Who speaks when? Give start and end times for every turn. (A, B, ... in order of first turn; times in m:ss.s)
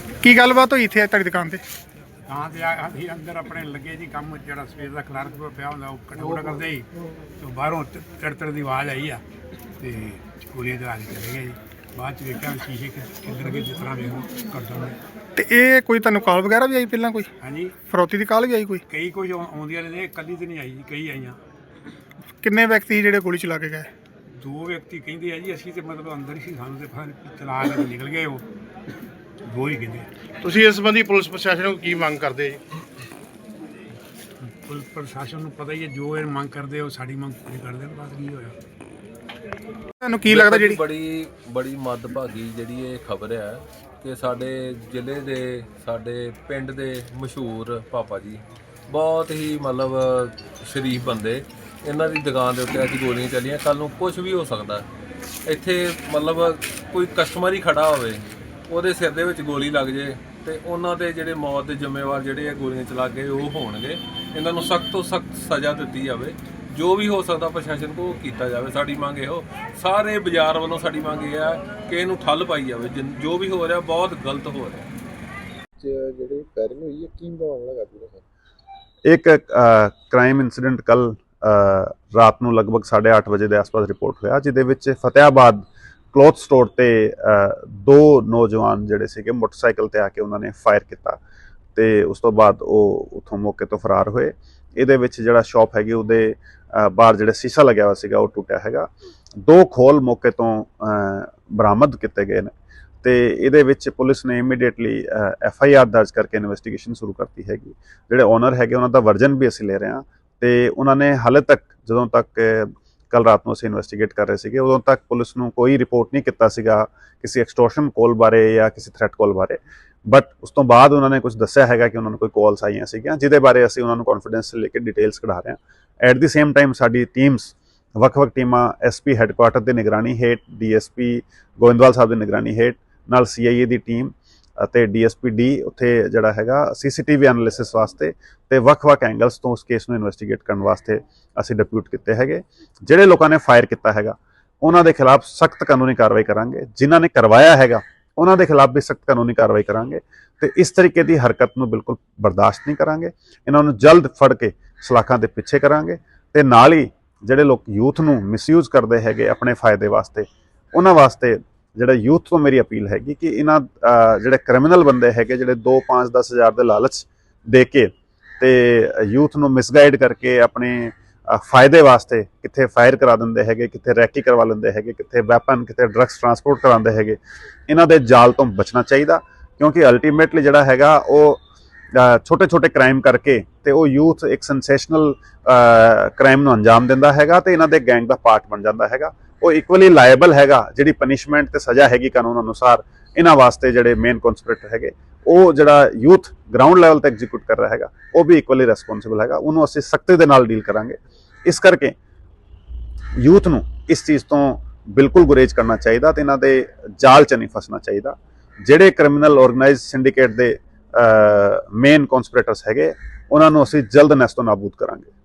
0:00.2-0:01.6 A
0:02.3-0:06.9 B
0:07.4-0:09.2 B
0:09.8-0:15.0 B
0:15.4-0:17.3 A
0:17.4-0:17.8 B
0:17.9-0:18.8 A
0:18.9-0:21.4 B
0:22.4-0:23.9 A
0:24.4-0:28.4 B
0:29.5-0:30.1 B
0:30.4-0:32.6 C
0:34.4-0:38.6 B
0:40.0-0:40.8 A
0:40.3-0:54.9 D
0:55.5-1:14.9 D
1:15.8-1:18.2 E
1:19.1-1:31.2 F
1:31.8-1:38.9 F
1:39.4-1:42.5 F
1:43.0-2:57.2 F
2:57.7-3:01.4 F
3:02.0-3:21.9 F
3:23.2-3:35.1 F